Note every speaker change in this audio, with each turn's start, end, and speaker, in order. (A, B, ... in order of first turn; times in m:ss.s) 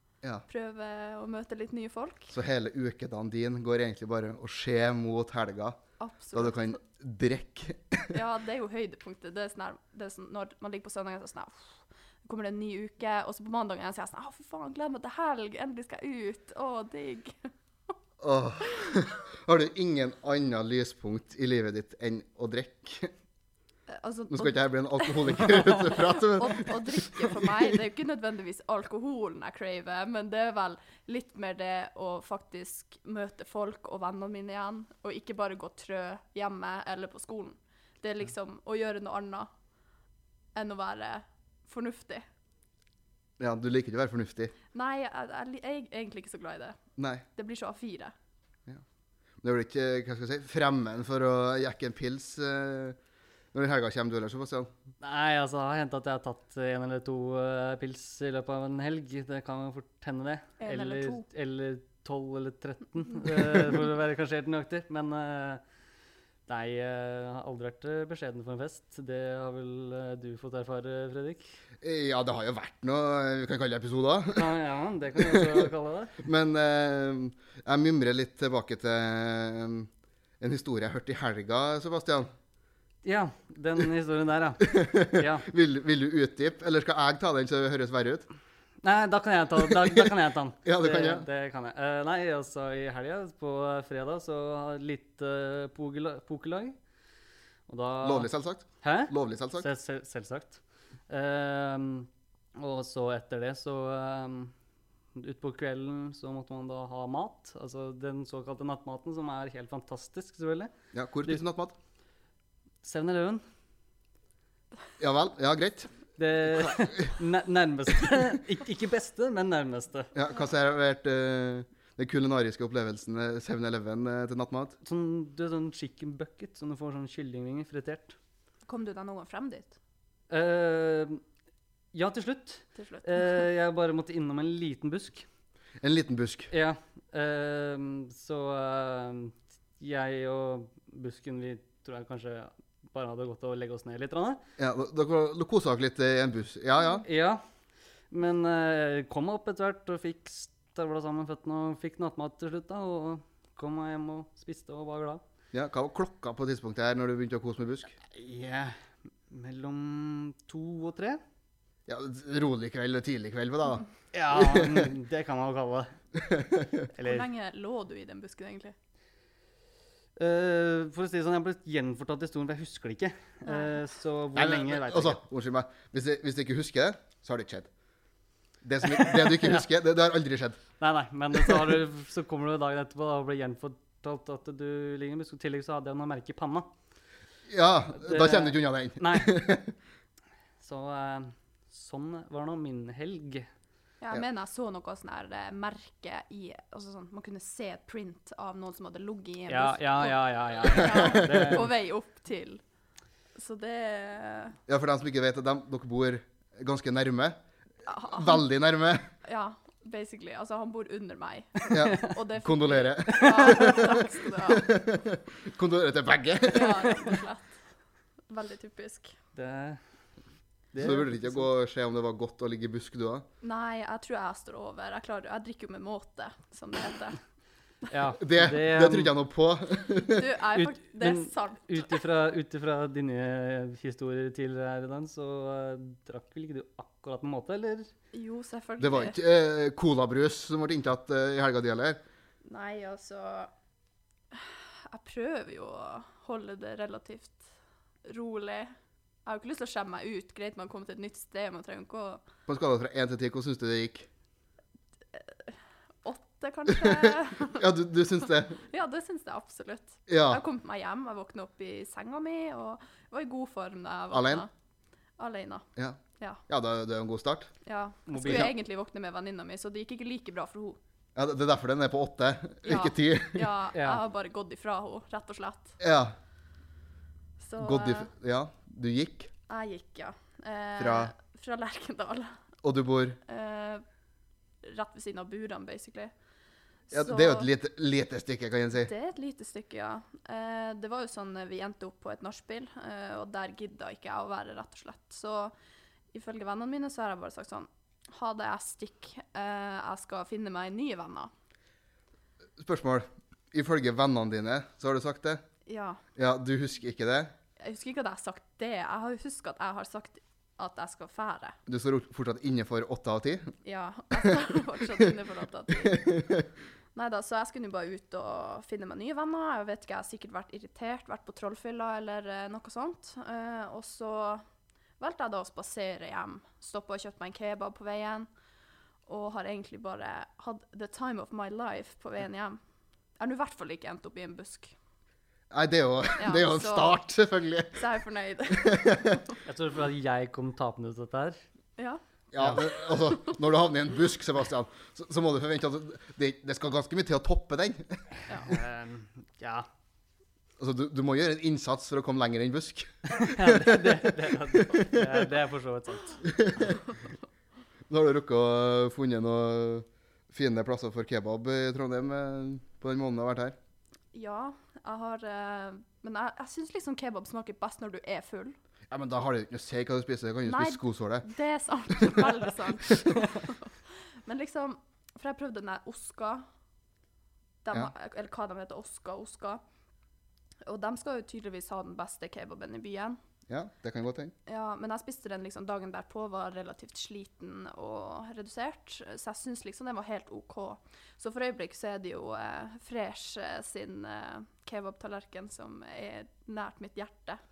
0:00.5-0:02.3 A
0:02.3-0:05.8 B
0:06.0-0:06.8 A
0:06.3-0:08.2 B
0:08.1-0:17.4 A
0:18.2-0:23.1 B
0:23.9-0:39.5 A
0:24.3-0:27.6 B
0:40.5-0:42.2 A
0:43.4-0:44.5 B
0:44.7-0:46.8 A
0:47.0-0:47.2 B
0:47.4-0:48.1 A
0:49.4-0:53.0 B
0:53.5-0:54.7 B
0:55.0-1:05.6 C
1:00.6-1:01.3 A
1:06.5-1:11.4 C
1:11.8-1:14.5 B
1:14.4-1:16.2 C
1:15.2-1:15.7 B
1:16.2-1:22.3 B
1:23.0-1:25.5 C
1:24.6-1:28.3 B
1:28.8-1:36.8 C
1:29.6-1:30.1 B
1:30.6-1:31.3 B
1:37.7-1:38.3 C
1:38.0-1:39.7 B
1:38.8-1:44.5 C
1:45.1-1:50.7 C
1:50.9-1:51.8 B
1:52.8-1:53.4 C
1:55.0-1:55.9 B
1:56.2-2:00.1 C
1:56.6-1:57.1 B
2:00.1-2:04.8 B
2:04.8-2:08.2 C
2:08.7-2:09.8 A
2:10.3-2:11.2 C
2:11.9-2:15.2 C
2:12.8-2:13.4 A
2:15.8-2:16.5 B
2:16.5-2:24.4 C
2:24.6-2:27.0 B
2:27.0-2:27.4 C
2:28.1-2:35.2 C
2:35.5-2:38.0 B
2:38.1-2:41.2 C
2:41.9-2:44.9 B
2:44.1-2:45.9 C
2:46.2-2:46.8 B
2:47.0-2:47.3 C
2:47.0-2:48.8 A
2:50.2-2:55.2 C
2:53.4-2:53.8 A
2:54.4-2:57.7 B
2:58.6-3:00.6 B
2:59.0-2:59.6 C
3:00.8-3:06.7 C
3:07.5-3:09.7 B
3:08.0-3:09.4 C
3:10.6-3:13.5 C
3:14.0-3:22.6 A
3:19.5-3:21.7 C
3:20.9-3:21.6 B
3:23.4-3:24.6 A
3:24.7-3:27.4 B
3:27.9-3:28.4 A
3:28.1-3:29.1 B
3:29.2-3:34.7 A
3:31.7-3:37.0 B
3:33.2-3:33.6 C
3:36.5-3:37.5 A
3:38.3-3:39.1 A
3:39.4-3:39.8 C
3:40.7-3:41.5 C
3:40.8-3:43.2 B
3:43.4-3:47.2 A
3:47.9-3:49.1 C
3:48.2-3:50.2 B
3:50.0-3:52.0 A
3:50.5-3:57.9 C
3:58.1-3:59.2 A
3:58.8-4:02.0 B
4:02.5-4:03.5 A
4:04.3-4:07.5 A
4:08.0-4:08.7 A
4:09.2-4:12.2 A
4:12.5-4:14.1 B
4:15.1-4:17.6 A
4:16.7-4:18.6 B
4:18.6-4:24.5 A
4:20.1-4:20.4 B
4:24.1-4:24.4 B
4:25.2-4:25.7 A
4:25.8-4:27.5 B
4:27.6-4:30.8 A
4:28.1-4:28.5 C
4:28.2-4:28.5 B
4:31.2-4:33.5 B
4:32.6-4:35.8 A
4:33.7-4:34.0 C
4:35.8-4:36.1 B
4:37.4-4:38.1 A
4:37.6-4:39.3 B
4:39.5-4:42.4 A
4:40.8-4:41.1 B
4:42.6-4:43.2 B
4:43.2-4:43.8 A
4:44.6-4:46.1 A
4:46.9-4:47.5 A
4:46.9-4:48.9 B
4:48.8-4:55.5 A
4:56.1-5:01.3 A
5:02.6-5:05.4 B
5:05.6-5:06.0 A
5:06.2-5:07.3 B
5:07.6-5:11.6 A
5:11.7-5:13.5 B
5:13.6-5:16.1 A
5:15.8-5:16.5 B
5:17.0-5:24.4 A
5:25.0-5:28.3 A
5:29.1-5:32.6 A
5:33.2-5:34.8 A
5:35.5-5:37.8 B
5:36.2-5:37.0 A
5:37.7-5:39.2 A
5:38.5-5:39.2 B
5:39.4-5:41.4 C
5:42.3-5:48.0 B
5:42.4-5:42.6 C
5:42.6-5:43.4 A
5:48.4-5:49.6 C
5:50.6-5:55.1 B
5:53.2-5:56.3 C
5:56.2-5:56.8 B
5:57.9-6:03.6 B
6:04.1-6:08.6 A
6:08.9-6:11.2 B
6:10.5-6:13.7 A
6:12.0-6:12.3 B
6:14.2-6:16.5 A
6:17.6-6:19.6 A
6:20.6-6:23.2 A
6:23.5-6:24.3 B
6:24.5-6:37.4 A